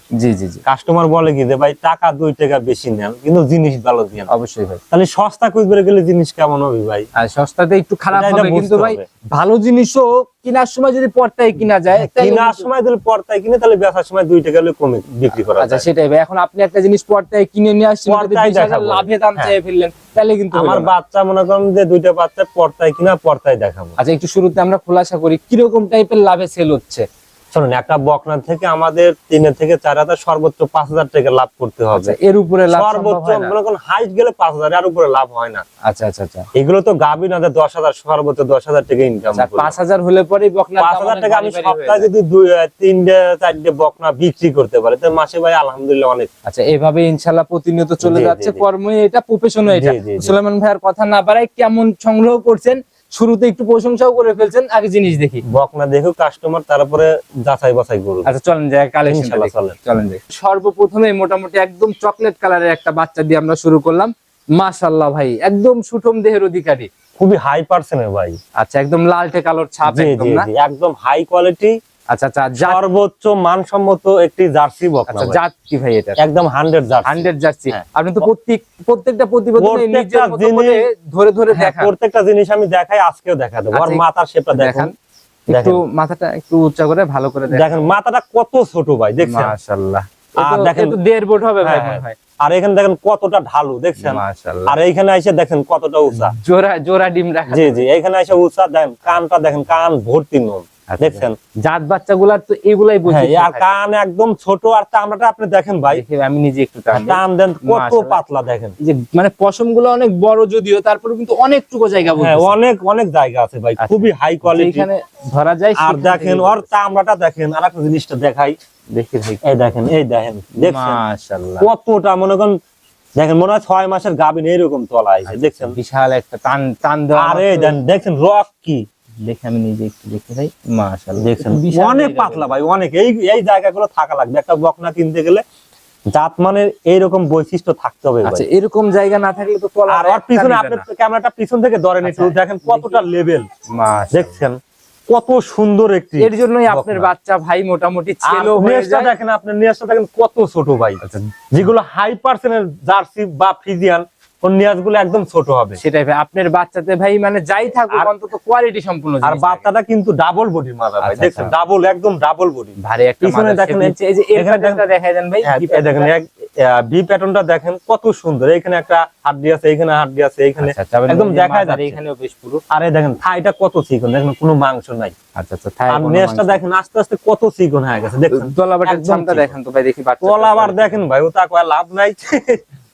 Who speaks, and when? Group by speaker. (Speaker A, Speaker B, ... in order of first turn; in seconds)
Speaker A: 0.2-0.6, 4.3-4.8, 7.2-12.7, 15.6-20.9, 24.0-27.0, 31.9-33.5, 35.8-36.5, 39.3-42.1, 46.5-55.4, 58.2-66.9, 68.6-70.5, 72.1-72.8, 75.1-76.2, 77.0-81.9, 83.7-84.0, 84.5-84.9, 85.5-87.8, 89.2-92.2, 94.0-94.7, 96.1-97.8, 100.9-103.7, 105.9-108.2, 108.8-112.5, 113.8-116.7, 118.9-119.4, 120.6-121.7, 125.6-127.7, 129.2-132.5, 138.2-140.8, 142.0-143.0, 143.7-144.3, 146.2-149.1, 151.0-151.3, 155.8-159.6, 161.0-161.5, 162.8-166.1, 170.6-172.6, 175.3-176.6, 178.3-181.0
Speaker B: 0.7-4.3, 4.9-7.1, 8.1-9.0, 12.0-15.9, 18.1-19.5, 20.5-23.9, 27.5-32.1, 32.7-35.6, 36.5-39.7, 40.8-46.3, 48.0-48.6, 49.7-50.3, 55.5-58.3, 59.0-59.7, 67.2-68.4, 69.8-71.8, 72.6-75.4, 76.2-78.2, 79.6-80.8, 81.5-84.9, 85.5-85.8, 87.5-89.5, 90.4-90.9, 91.6-96.3, 97.5-101.3, 103.1-106.0, 106.9-108.8, 112.2-114.9, 115.8-118.5, 119.4-121.0, 121.6-122.5, 123.2-125.8, 127.2-128.8, 131.2-135.4, 136.1-138.4, 139.9-143.5, 144.1-147.1, 148.2-151.0, 151.5-155.8, 159.2-164.8, 165.4-171.9, 172.7-175.1, 175.9-179.5, 180.2-182.6